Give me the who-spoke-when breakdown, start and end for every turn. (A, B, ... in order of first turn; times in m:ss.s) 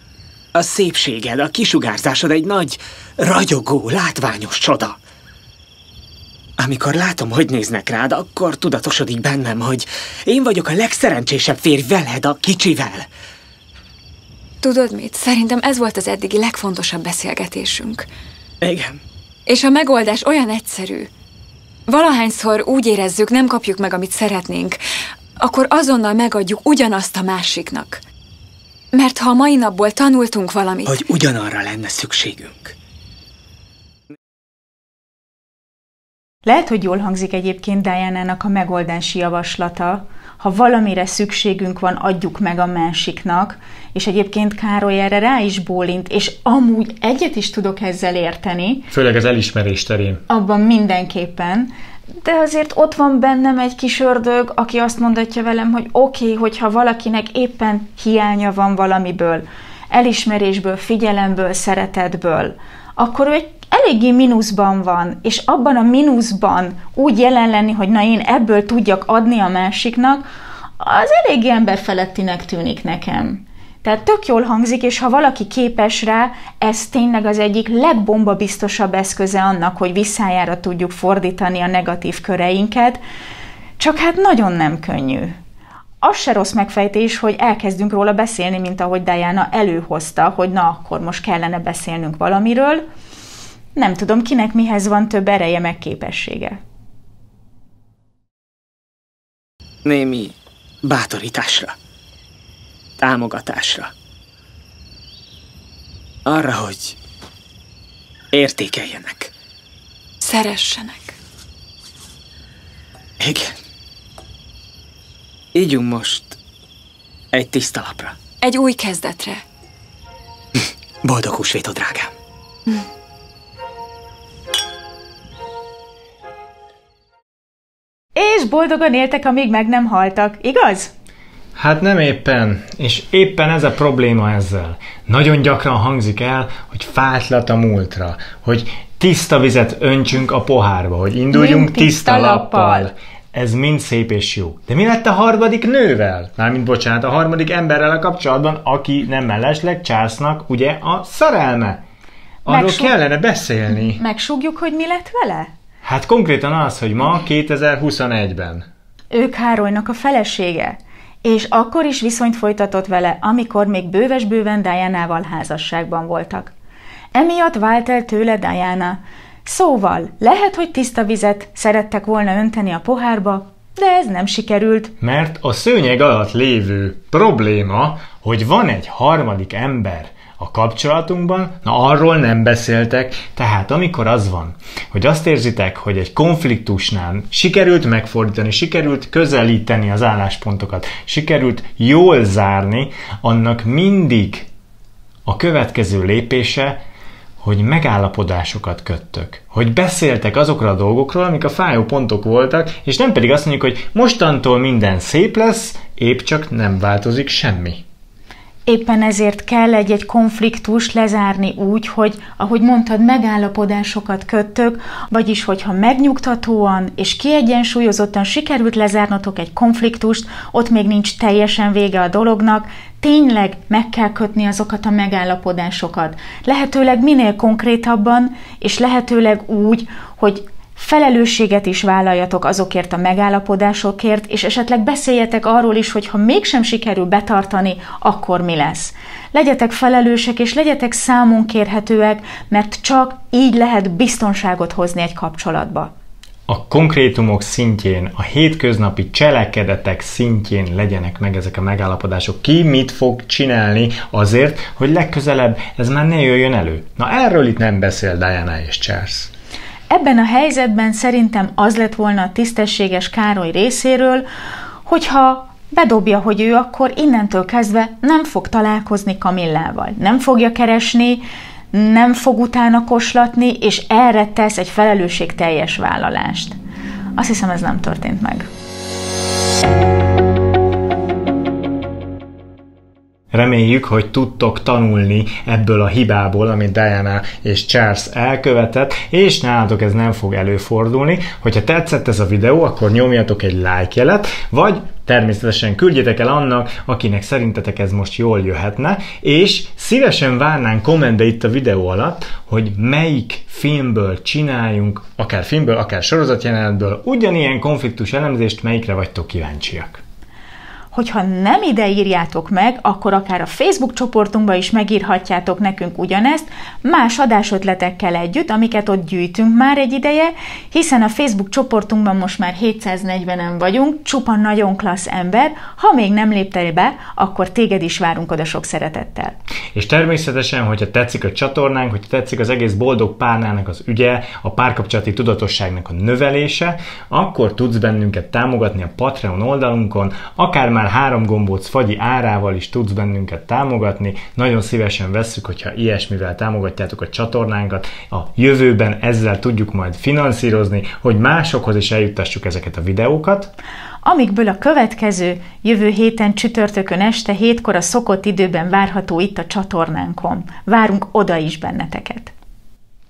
0:00.5-0:05.0 A
0:06.6-0:13.0 A
0:14.6-0:18.0 B
0:18.6-0:19.0 A
0:19.4-0:21.1 B
0:21.9-0:24.8 B
0:25.4-0:28.0 B
0:28.9-0:31.0 B
0:30.9-0:32.7 A
0:36.4-0:48.9 C
0:48.9-0:50.2 D
0:50.3-0:51.7 C
0:52.2-1:10.2 C
1:10.8-1:23.0 C
1:23.8-1:25.4 C
1:26.0-1:32.8 C
1:33.7-1:36.6 C
1:39.8-1:41.7 A
1:43.0-1:43.9 A
1:46.2-1:47.0 A
1:48.3-1:49.3 A
1:50.2-1:51.2 B
1:53.2-1:53.6 A
1:55.5-1:56.4 A
1:57.3-1:58.2 A
1:58.4-1:59.4 B
2:00.6-2:02.1 A
2:08.1-2:10.9 C
2:11.6-2:31.8 D
2:21.3-2:22.9 C
2:32.4-2:32.9 C
2:32.4-2:34.0 D
2:33.9-2:35.5 C
2:35.8-2:38.6 D
2:39.1-2:46.5 C
2:47.1-2:54.9 C
2:55.0-3:14.5 D
3:15.2-3:16.8 D
3:17.4-3:27.8 D
3:28.6-4:05.9 C
4:06.5-4:19.3 D
4:19.9-4:24.2 C
4:24.8-4:36.6 C
4:37.2-4:38.5 C
4:43.3-5:10.0 D
5:10.9-5:29.4 C
5:29.7-5:53.5 D
5:54.0-6:02.3 C